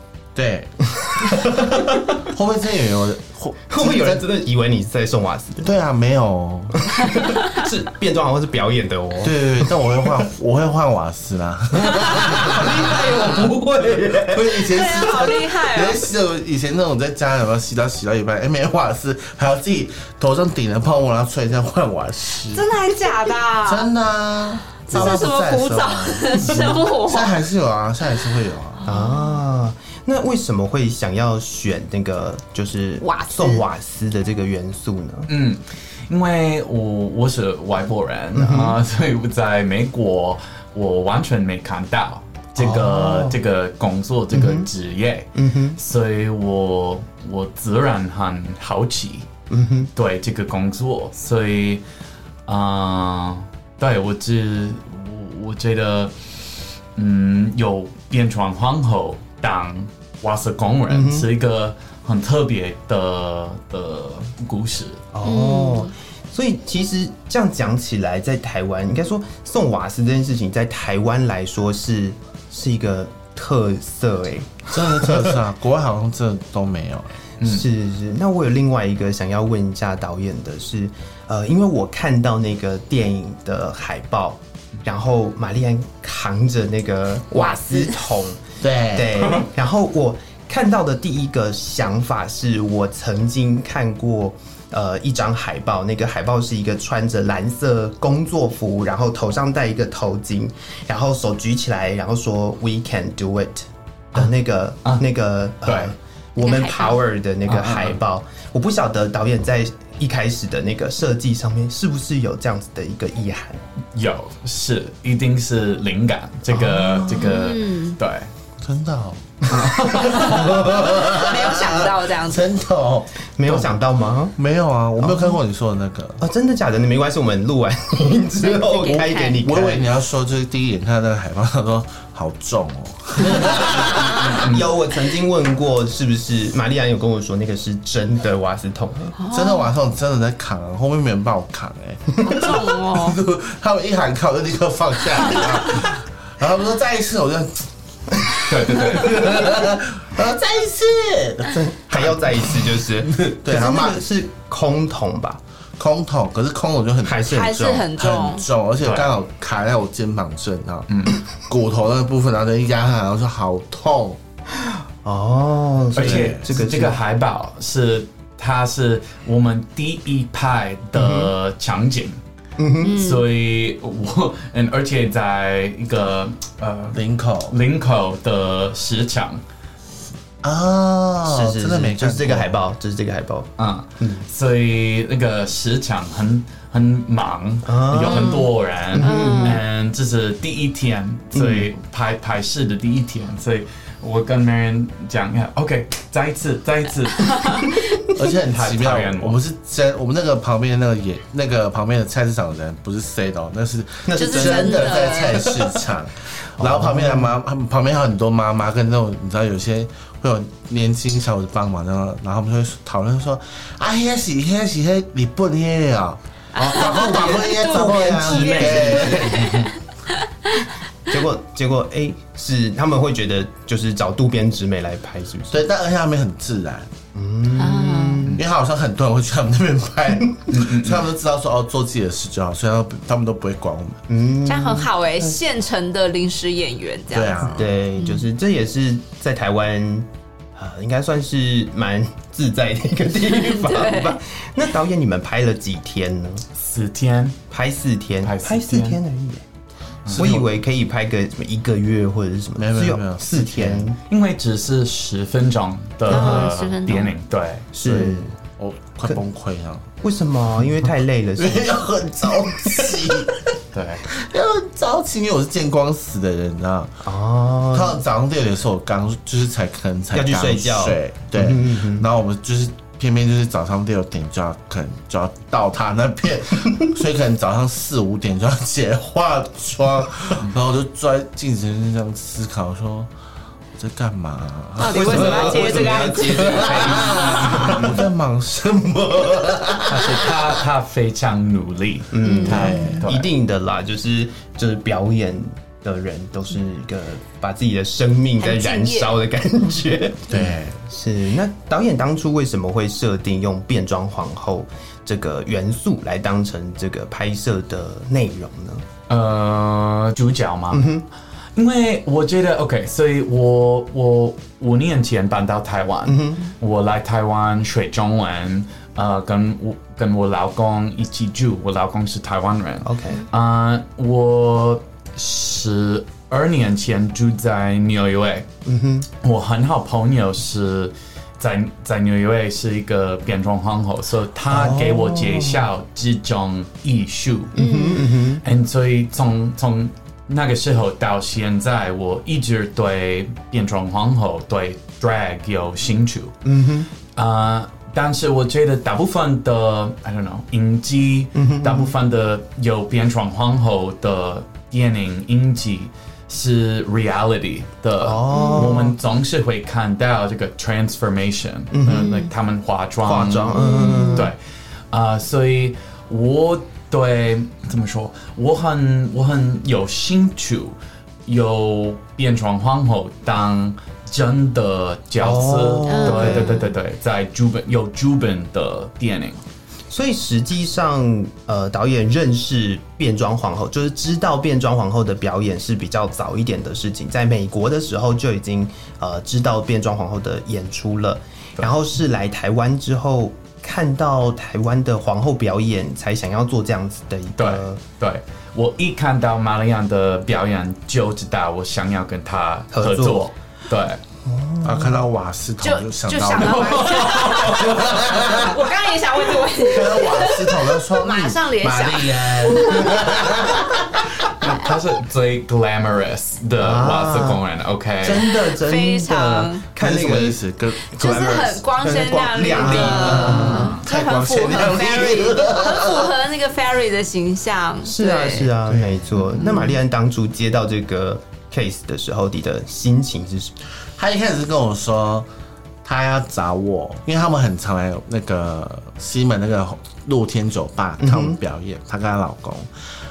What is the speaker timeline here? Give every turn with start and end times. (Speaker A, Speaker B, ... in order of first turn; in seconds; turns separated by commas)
Speaker A: 0.3-4.2, Speaker B: 1.1-2.3, Speaker B: 3.7-5.7, Speaker A: 5.6-6.8, Speaker B: 6.8-10.2, Speaker A: 9.2-22.7, Speaker B: 11.9-15.2, Speaker C: 14.6-16.1, Speaker C: 22.5-23.9, Speaker A: 23.6-28.8, Speaker C: 24.8-27.3, Speaker C: 28.9-29.4, Speaker B: 28.9-35.3, Speaker C: 33.0-33.6, Speaker D: 35.3-49.3, Speaker B: 38.3-38.8, Speaker B: 42.6-43.4, Speaker B: 44.3-44.7, Speaker B: 45.3-45.8, Speaker B: 49.5-49.9, Speaker D: 50.0-51.8, Speaker D: 52.5-56.1, Speaker D: 57.0-65.0, Speaker B: 60.9-61.3, Speaker B: 65.1-75.4, Speaker C: 65.2-65.9, Speaker A: 74.7-77.2, Speaker D: 77.4-77.7, Speaker B: 77.4-113.6, Speaker C: 87.4-88.0, Speaker A: 88.6-89.3, Speaker D: 104.1-105.1, Speaker D: 105.6-105.9, Speaker C: 106.4-107.0, Speaker D: 107.5-108.0, Speaker D: 113.9-118.3, Speaker A: 116.7-117.3, Speaker C: 117.2-118.0, Speaker A: 118.6-123.8, Speaker D: 119.5-120.6, Speaker B: 119.7-120.5, Speaker C: 120.6-122.5, Speaker B: 123.4-124.3, Speaker A: 124.3-126.2, Speaker B: 125.0-125.4, Speaker B: 126.2-129.9, Speaker C: 128.4-129.4, Speaker A: 129.4-134.4, Speaker B: 133.3-139.1, Speaker D: 134.2-134.7, Speaker C: 139.2-139.7, Speaker A: 139.3-154.0, Speaker C: 142.2-143.2, Speaker D: 148.5-149.4, Speaker B: 151.9-155.4, Speaker A: 155.8-157.3, Speaker B: 157.0-157.9, Speaker C: 157.3-158.4, Speaker A: 157.9-160.9, Speaker D: 158.8-159.1, Speaker D: 160.9-161.2, Speaker A: 161.5-164.2, Speaker B: 165.0-167.0, Speaker D: 165.9-172.2, Speaker A: 166.0-166.4, Speaker B: 170.9-171.3, Speaker B: 172.6-173.0, Speaker C: 172.8-173.2, Speaker D: 172.9-179.4, Speaker A: 176.9-177.6, Speaker A: 180.4-182.5, Speaker B: 181.3-184.2, Speaker D: 183.6-197.7, Speaker B: 187.7-189.6, Speaker C: 188.1-188.5, Speaker C: 189.0-189.6, Speaker B: 191.4-191.7, Speaker A: 198.1-219.7, Speaker D: 198.5-199.4, Speaker B: 204.1-205.8, Speaker C: 204.2-205.6, Speaker B: 206.6-207.3, Speaker C: 216.5-220.7, Speaker B: 216.8-219.6, Speaker D: 218.4-218.9, Speaker B: 221.1-225.6, Speaker A: 225.5-226.9, Speaker B: 227.1-228.4, Speaker C: 227.6-228.3, Speaker A: 228.4-234.0, Speaker D: 230.5-231.1, Speaker B: 234.1-235.4, Speaker C: 234.4-238.3, Speaker A: 237.1-237.7, Speaker B: 237.6-246.4, Speaker C: 243.3-244.2, Speaker D: 246.6-247.4, Speaker B: 247.5-249.4, Speaker D: 248.2-249.0, Speaker D: 250.1-250.4, Speaker B: 250.1-254.0, Speaker A: 250.1-250.5, Speaker A: 252.6-253.9, Speaker D: 254.1-257.7, Speaker C: 256.1-257.1, Speaker B: 256.1-256.4, Speaker B: 257.7-258.3, Speaker A: 257.8-259.9, Speaker B: 260.0-261.8, Speaker A: 261.4-263.4, Speaker B: 262.7-262.9, Speaker D: 263.7-264.1, Speaker A: 264.1-267.1, Speaker B: 267.0-268.0, Speaker A: 267.7-283.1, Speaker B: 270.1-272.1, Speaker A: 283.8-290.6, Speaker C: 284.8-287.5, Speaker B: 284.8-287.9, Speaker D: 286.5-287.9, Speaker D: 289.9-293.3, Speaker B: 292.1-308.8, Speaker C: 292.2-293.0, Speaker A: 292.4-293.0, Speaker C: 298.4-299.2, Speaker A: 300.3-300.8, Speaker D: 309.1-310.9, Speaker B: 310.7-311.1, Speaker D: 311.6-328.5, Speaker B: 316.1-316.5, Speaker B: 322.8-323.2, Speaker B: 328.6-329.1, Speaker D: 329.2-337.6, Speaker B: 334.5-335.7, Speaker B: 337.6-338.4, Speaker C: 337.6-338.0, Speaker D: 338.4-346.4, Speaker B: 346.4-346.9, Speaker D: 347.1-364.4, Speaker B: 351.3-351.9, Speaker B: 358.0-359.0, Speaker C: 358.3-358.8, Speaker B: 361.7-362.3, Speaker B: 363.1-364.3, Speaker C: 363.6-364.3, Speaker D: 364.9-379.4, Speaker B: 375.2-376.7, Speaker C: 375.9-376.6, Speaker B: 379.9-397.8, Speaker D: 397.4-404.0, Speaker B: 402.7-403.3, Speaker B: 404.2-405.0, Speaker A: 404.6-408.6, Speaker C: 405.6-413.4, Speaker D: 406.4-408.0, Speaker A: 409.6-413.8, Speaker D: 414.3-418.3, Speaker B: 416.6-417.4, Speaker B: 418.0-420.4, Speaker C: 418.3-419.6, Speaker A: 419.8-426.2, Speaker C: 420.9-428.5, Speaker B: 421.0-423.8, Speaker D: 423.4-423.8, Speaker B: 427.9-433.5, Speaker A: 428.7-429.4, Speaker C: 429.4-429.8, Speaker A: 434.0-435.3, Speaker A: 435.8-442.7, Speaker B: 441.0-441.4